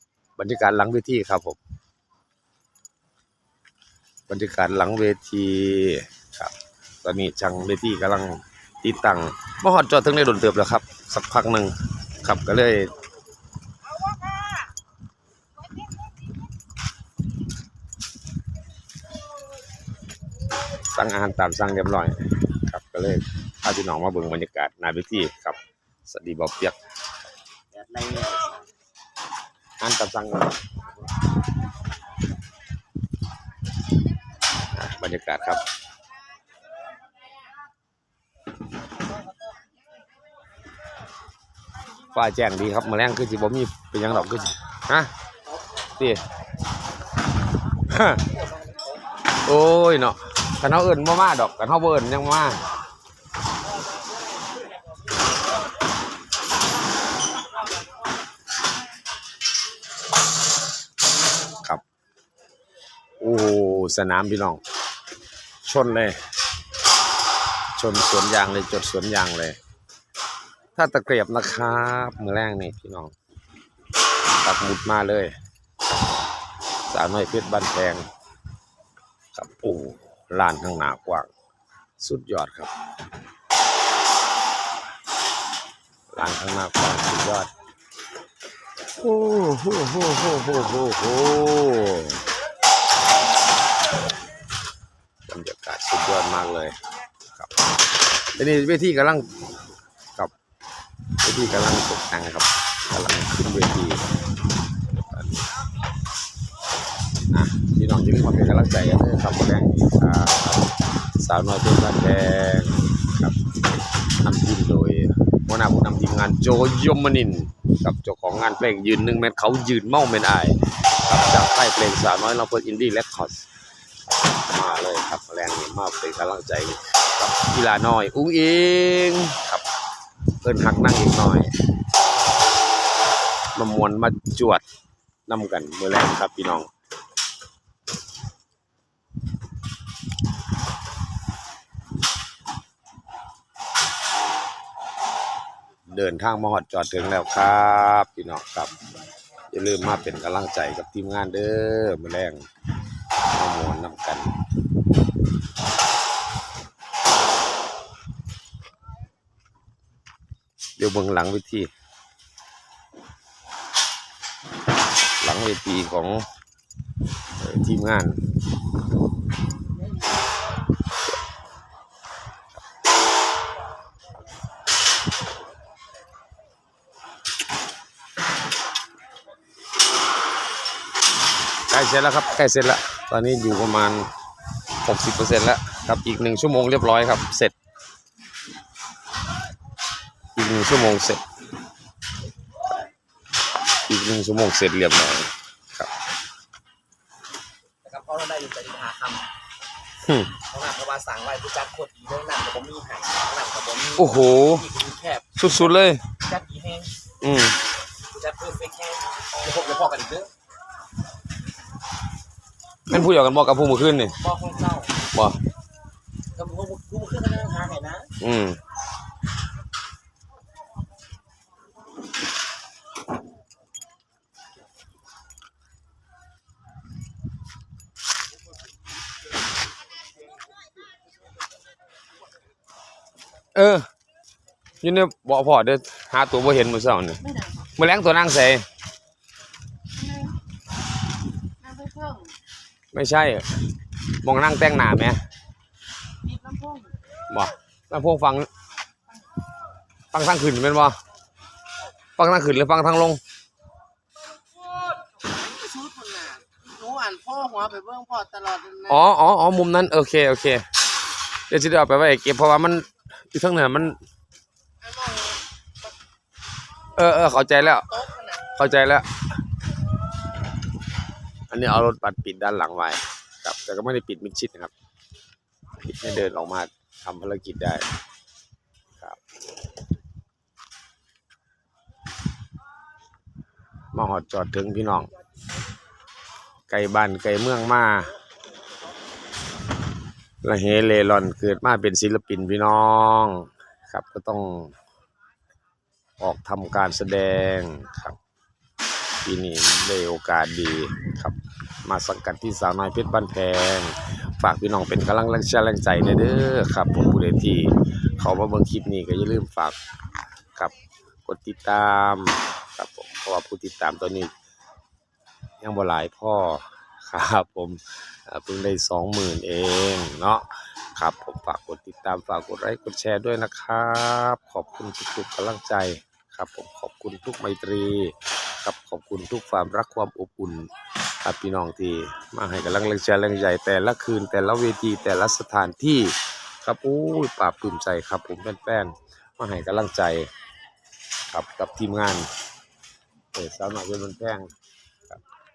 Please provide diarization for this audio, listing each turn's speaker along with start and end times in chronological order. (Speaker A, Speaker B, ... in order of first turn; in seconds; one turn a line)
Speaker A: 0.4-1.6
Speaker A: 4.3-12.9
Speaker A: 20.9-26.8
Speaker B: 27.7-28.6
Speaker A: 29.8-30.6
Speaker A: 34.7-35.6
Speaker A: 42.1-45.1
Speaker A: 47.9-48.2
Speaker A: 49.4-52.6
Speaker A: 61.5-61.8
Speaker A: 63.2-64.6
Speaker A: 65.6-66.2
Speaker A: 67.8-69.6
Speaker A: 70.8-73.1
Speaker A: 74.4-75.3
Speaker A: 76.9-78.1
Speaker A: 79.3-81.3
Speaker A: 82.0-82.7
Speaker A: 86.1-87.5
Speaker A: 89.0-92.2
Speaker A: 95.3-96.8
Speaker A: 98.3-99.3
Speaker A: 101.2-104.2
Speaker A: 104.9-105.4
Speaker A: 107.3-113.4
Speaker A: 114.2-123.5
Speaker A: 124.3-129.6
Speaker A: 130.4-131.5
Speaker A: 133.6-134.6
Speaker A: 135.3-136.7
Speaker A: 145.9-148.7
Speaker A: 149.5-152.5
Speaker A: 153.3-154.3
Speaker A: 160.8-161.7
Speaker A: 165.2-166.2
Speaker A: 167.4-168.2
Speaker A: 181.7-184.1
Speaker A: 184.8-187.5
Speaker A: 190.3-191.2
Speaker A: 193.8-195.9
Speaker B: 197.8-199.3
Speaker A: 200.0-200.3
Speaker B: 200.4-206.9
Speaker A: 203.9-204.7
Speaker A: 205.3-206.0
Speaker A: 207.2-207.6
Speaker B: 208.1-210.3
Speaker A: 212.9-214.2
Speaker B: 214.2-215.0
Speaker A: 215.1-215.4
Speaker B: 216.3-218.1
Speaker A: 218.2-218.6
Speaker A: 233.5-233.9
Speaker A: 234.8-238.6
Speaker C: 241.6-242.3
Speaker A: 242.9-243.5
Speaker A: 244.2-245.2
Speaker C: 246.3-246.9
Speaker A: 247.3-248.5
Speaker A: 250.1-251.0
Speaker A: 252.2-253.2
Speaker C: 255.6-258.7
Speaker A: 258.7-260.6
Speaker A: 261.5-264.0
Speaker A: 266.9-269.1
Speaker A: 271.5-274.7
Speaker A: 275.8-277.9
Speaker A: 283.9-285.1
Speaker A: 286.7-288.1
Speaker A: 290.4-294.7
Speaker A: 296.2-298.2
Speaker A: 299.2-309.8
Speaker A: 311.2-314.3
Speaker A: 315.6-330.7
Speaker A: 331.2-340.3
Speaker A: 341.3-342.3
Speaker A: 343.3-344.5